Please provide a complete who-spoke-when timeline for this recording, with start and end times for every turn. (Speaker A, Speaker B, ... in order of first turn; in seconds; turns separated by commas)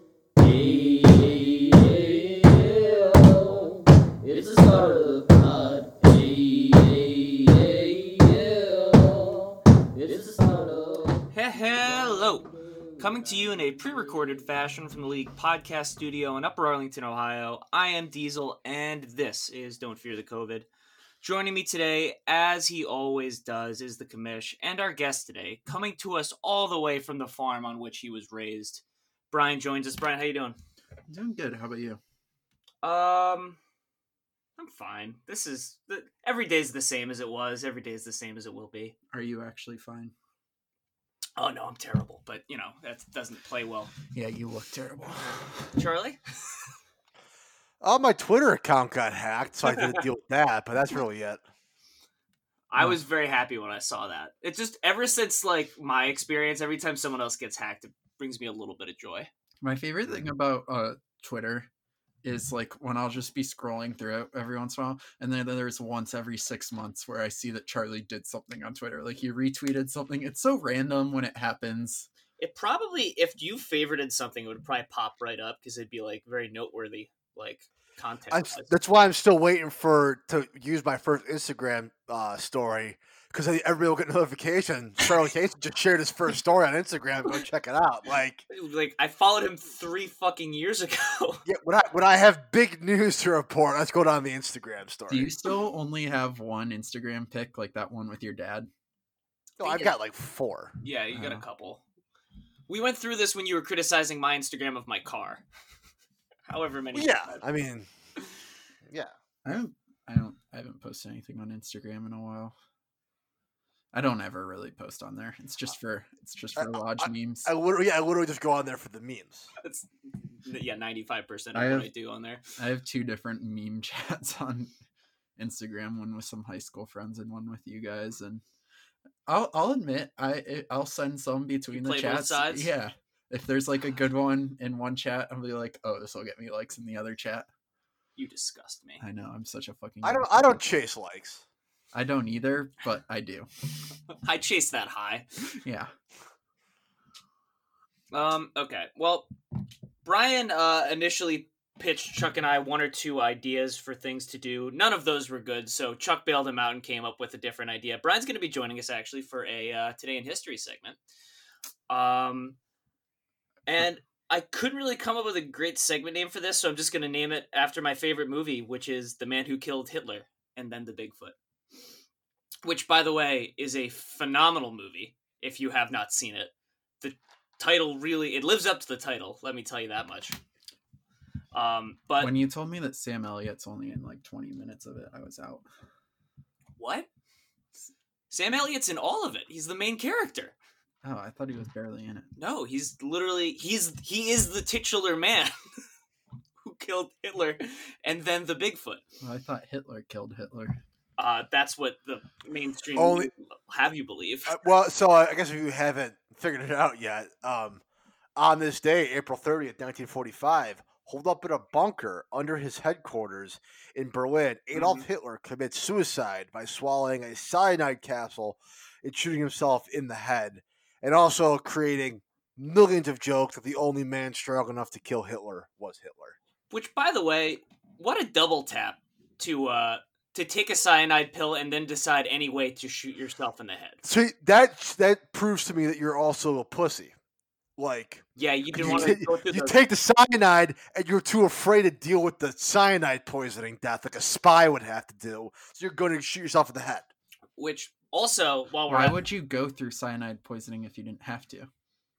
Speaker A: 0.3-11.2, Speaker B: 11.3-20.7, Speaker B: 21.2-30.6, Speaker C: 31.1-32.0, Speaker B: 32.8-33.6, Speaker B: 34.6-39.0, Speaker C: 39.1-40.1, Speaker B: 41.4-43.9, Speaker C: 44.1-45.7, Speaker B: 45.1-46.2, Speaker D: 47.8-51.4, Speaker B: 52.7-59.3, Speaker C: 59.6-61.7, Speaker C: 62.2-72.1, Speaker B: 72.4-78.7, Speaker D: 78.3-88.5, Speaker B: 88.5-91.4, Speaker D: 91.5-95.3, Speaker C: 95.1-98.7, Speaker D: 99.6-100.8, Speaker B: 99.6-99.9, Speaker B: 100.8-101.8, Speaker C: 101.1-101.4, Speaker B: 102.7-105.4, Speaker B: 106.5-107.4, Speaker D: 106.9-107.9, Speaker C: 109.4-112.5, Speaker C: 113.9-117.5, Speaker D: 116.6-119.5, Speaker B: 119.6-122.4, Speaker C: 121.5-121.9, Speaker C: 122.6-124.7, Speaker C: 125.4-128.4, Speaker C: 129.3-137.5, Speaker B: 131.7-132.7, Speaker B: 138.2-139.0, Speaker C: 139.0-140.6, Speaker D: 140.0-141.4, Speaker C: 141.9-143.5, Speaker B: 144.2-145.3, Speaker C: 145.6-145.9, Speaker B: 148.1-149.3, Speaker B: 150.0-161.0, Speaker B: 161.9-162.6, Speaker B: 163.7-171.3, Speaker B: 172.6-180.4, Speaker B: 181.5-182.3, Speaker C: 182.2-185.7, Speaker B: 186.8-187.1, Speaker B: 188.3-190.5, Speaker C: 191.0-192.3, Speaker B: 192.4-195.5, Speaker B: 196.6-199.0, Speaker C: 199.2-200.8, Speaker B: 201.2-204.6, Speaker D: 202.9-203.3, Speaker D: 204.5-207.8, Speaker D: 208.3-226.4, Speaker B: 214.7-215.0, Speaker B: 226.7-234.0, Speaker D: 234.0-237.1, Speaker D: 237.8-247.1, Speaker B: 238.4-239.8, Speaker B: 247.6-249.2, Speaker C: 248.9-251.7